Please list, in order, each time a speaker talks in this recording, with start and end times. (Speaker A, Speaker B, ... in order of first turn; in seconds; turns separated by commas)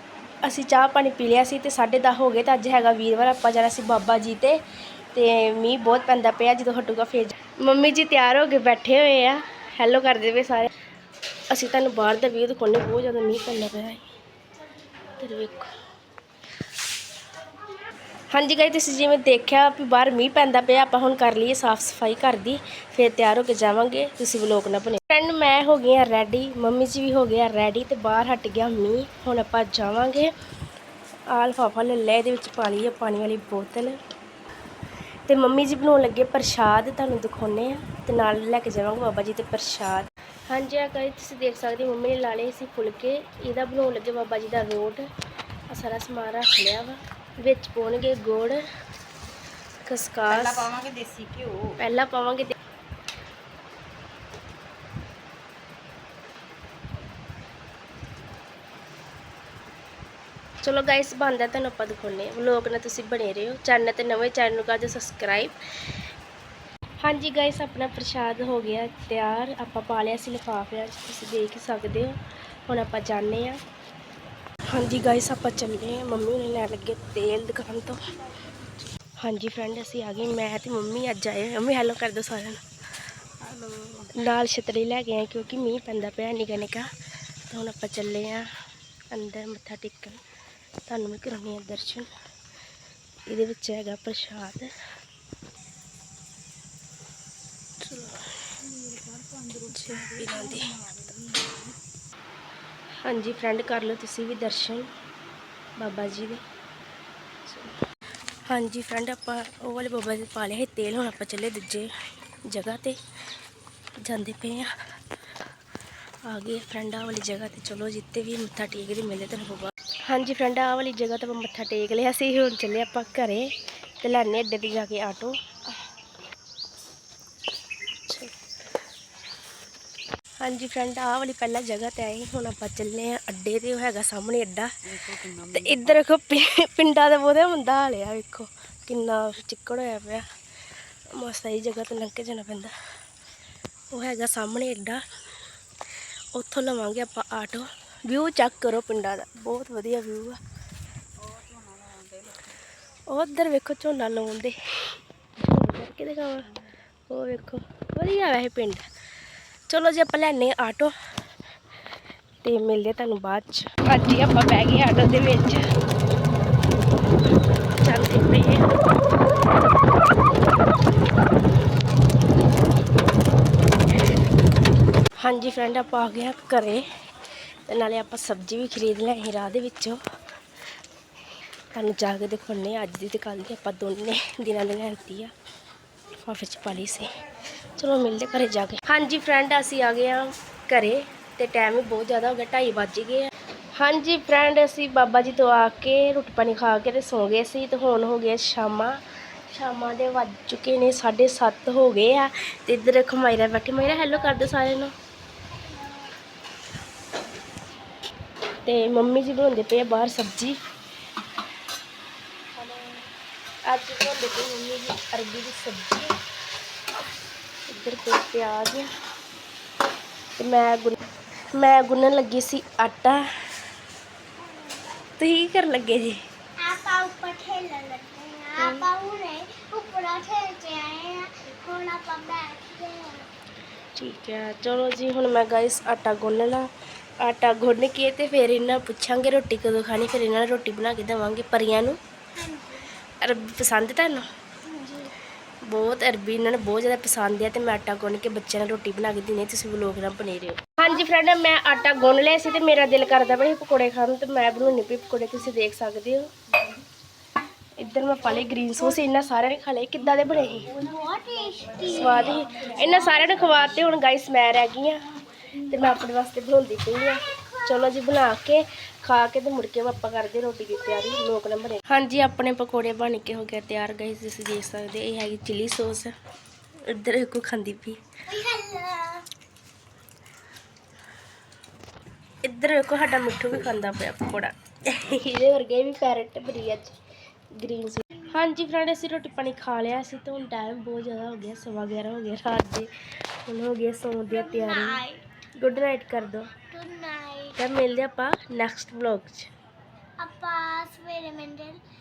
Speaker A: 0.4-4.6, Speaker A: 5.1-10.7, Speaker A: 11.5-14.1, Speaker A: 15.2-15.7, Speaker A: 18.3-30.3, Speaker A: 31.3-34.0, Speaker A: 35.2-45.0, Speaker A: 45.7-48.6, Speaker A: 49.9-50.7, Speaker B: 50.3-51.8, Speaker A: 51.8-52.5, Speaker A: 60.6-65.5, Speaker A: 67.0-72.1, Speaker A: 72.7-73.6, Speaker A: 74.7-78.0, Speaker A: 79.2-82.6, Speaker A: 83.6-86.8, Speaker A: 87.5-88.4, Speaker A: 89.1-90.2, Speaker A: 90.9-92.1, Speaker A: 93.3-94.7, Speaker A: 97.8-98.2, Speaker B: 98.9-101.5, Speaker A: 99.7-100.7, Speaker A: 103.0-104.8, Speaker A: 105.8-106.4, Speaker A: 107.5-107.7, Speaker A: 108.5-111.9, Speaker A: 112.5-113.0, Speaker A: 114.0-114.7, Speaker A: 116.2-123.5, Speaker A: 124.0-125.3, Speaker A: 130.4-134.7, Speaker B: 135.0-136.0, Speaker A: 135.5-140.2, Speaker A: 141.2-142.7, Speaker A: 143.9-145.0, Speaker A: 146.3-150.4, Speaker B: 151.2-152.4, Speaker A: 153.1-154.5, Speaker A: 155.4-156.4, Speaker A: 157.1-158.8, Speaker A: 159.7-160.9, Speaker A: 162.4-165.6, Speaker A: 167.8-168.6, Speaker A: 175.2-176.8, Speaker A: 177.7-180.0, Speaker A: 181.7-185.3, Speaker A: 186.2-187.1, Speaker A: 187.8-198.9, Speaker A: 199.5-204.9, Speaker C: 204.0-204.3, Speaker C: 205.5-206.1, Speaker A: 208.7-210.6, Speaker A: 213.7-216.1, Speaker A: 217.7-218.9, Speaker A: 220.4-221.0, Speaker A: 221.6-223.2, Speaker C: 224.4-224.8, Speaker A: 225.2-226.2, Speaker C: 226.6-233.3, Speaker A: 228.6-228.9, Speaker A: 233.9-236.7, Speaker A: 237.2-242.0, Speaker C: 242.3-242.9, Speaker A: 243.2-244.2, Speaker C: 244.6-245.1, Speaker A: 245.7-256.3, Speaker C: 251.8-253.4, Speaker A: 257.8-260.7, Speaker C: 260.7-263.4, Speaker A: 261.9-265.0, Speaker A: 265.6-276.1, Speaker C: 267.2-267.7, Speaker A: 276.9-278.1, Speaker C: 278.3-279.2, Speaker A: 282.4-286.9, Speaker A: 287.6-292.9, Speaker A: 293.4-295.0, Speaker C: 294.3-295.2, Speaker A: 295.6-296.5, Speaker C: 296.7-297.6, Speaker A: 297.6-299.5, Speaker C: 300.2-301.8